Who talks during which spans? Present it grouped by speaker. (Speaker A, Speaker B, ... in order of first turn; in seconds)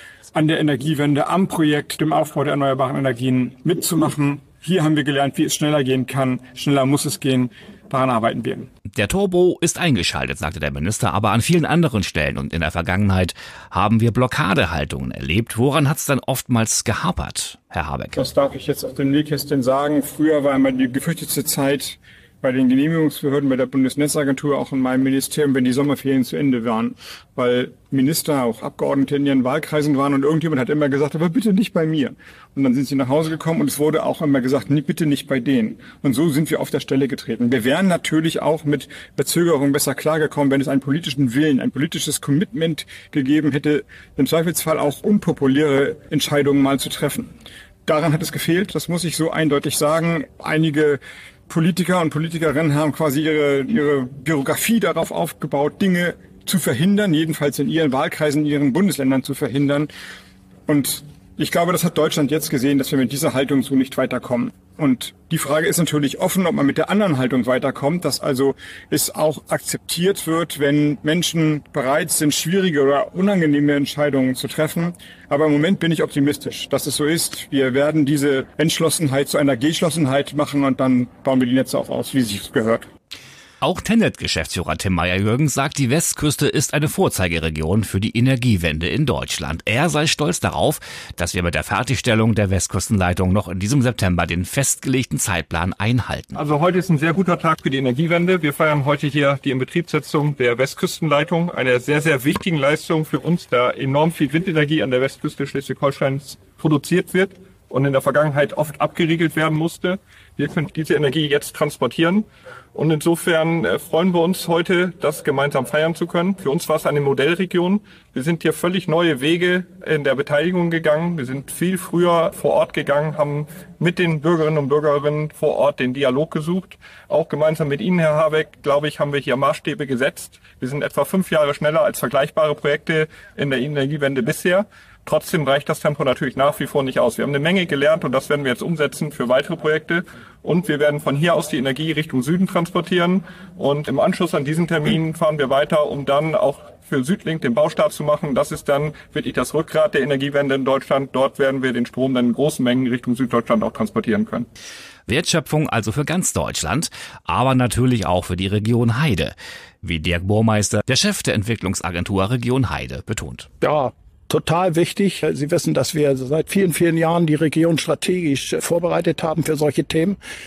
Speaker A: 0.3-8.7, 18.1-47.3, 47.9-59.9, 60.7-82.9
Speaker B: 8.9-18.2, 83.6-96.4, 155.1-163.5
Speaker C: 96.3-154.5
Speaker D: 163.6-170.2